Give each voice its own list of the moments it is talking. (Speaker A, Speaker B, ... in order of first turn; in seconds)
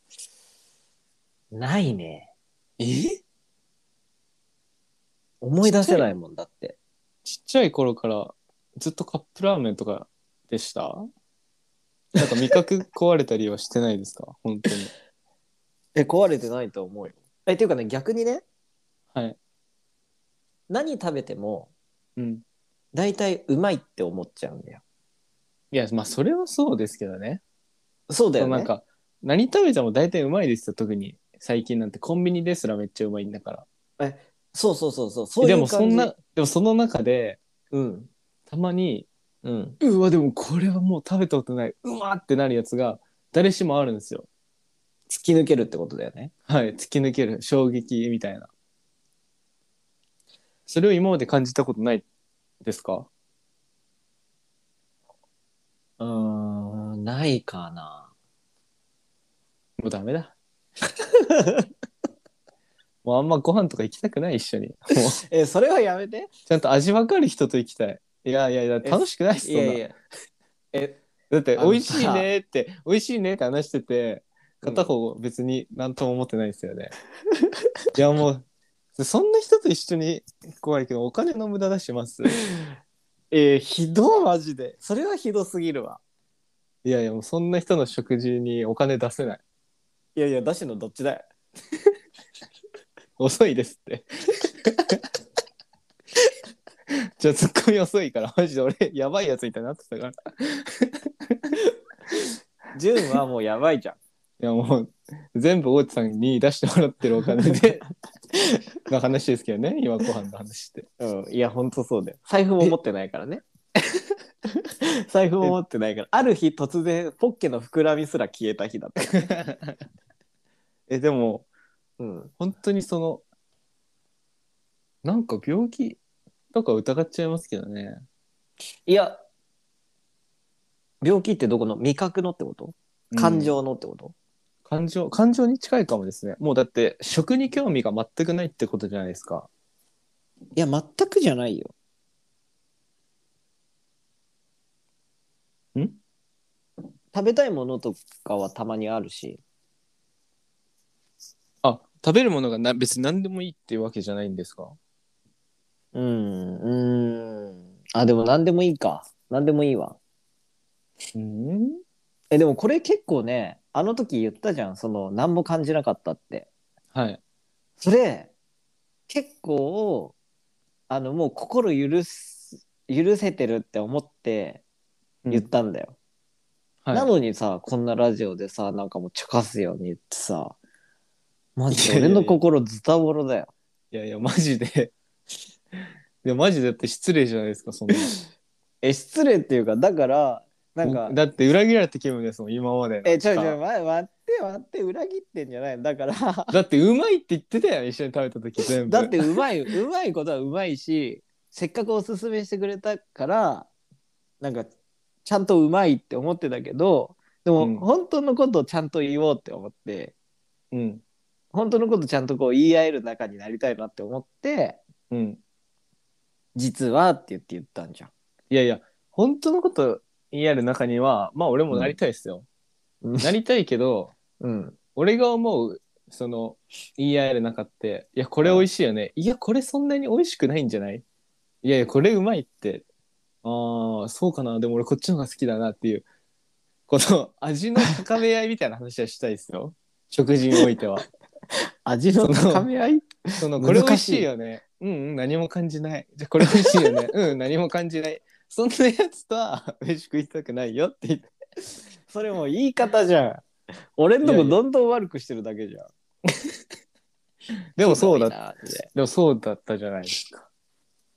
Speaker A: 1.5-2.3, 5.4-6.8, 12.2-12.5, 15.9-18.4, 20.7-21.7, 22.9-24.8, 28.1-28.7, 34.0-36.1, 37.7-38.1, 39.4-39.8, 45.1-46.3, 56.0-58.1, 61.1-61.7, 65.3-66.3, 68.8-69.9, 70.7-71.0, 71.6-72.3, 74.6-74.9, 83.3-86.0, 90.2-91.2, 102.7-104.0, 108.3-108.6, 111.0-113.4, 114.6-119.3, 122.0-122.3, 128.8-129.2, 131.0-134.1, 140.6-141.7, 147.1-149.4, 155.9-160.0, 162.3-166.5, 167.8-168.3, 169.1-170.1, 170.9-174.6, 175.3-175.9, 176.9-180.6, 181.6-183.5, 188.8-191.2, 193.0-196.6, 198.8-203.7, 204.4-204.7, 205.2-210.1, 211.5-214.8, 216.5-218.1, 223.0-223.3, 224.4-224.8, 241.8-244.3, 246.6-246.9, 252.1-255.9, 257.8-258.9
Speaker B: 2.8-3.2, 7.2-11.0, 12.2-14.9, 22.2-22.4, 25.7-27.4, 28.4-33.6, 35.4-37.4, 38.5-39.1, 39.8-44.3, 46.5-48.5, 50.7-52.0, 52.6-53.1, 59.8-60.3, 63.0-65.2, 66.5-69.8, 71.3-76.9, 77.9-78.4, 79.0-82.3, 86.8-89.4, 93.2-95.0, 96.9-101.6, 104.4-107.8, 108.8-110.8, 119.3-119.7, 120.9-121.5, 122.4-123.2, 125.0-126.0, 126.5-128.0, 133.1-133.5, 134.7-139.5, 151.6-154.8, 161.1-161.8, 166.9-167.2, 176.8-177.1, 181.7-182.4, 183.9-184.9, 186.2-188.1, 190.8-193.6, 196.5-199.2, 207.6-207.8, 210.7-211.0, 215.1-215.4, 218.5-222.4, 223.2-224.1, 224.9-231.0, 231.6-232.8, 233.4-236.0, 236.9-241.0, 242.2-242.7, 243.4-251.3, 254.2-254.6, 257.8-258.3, 258.9-260.5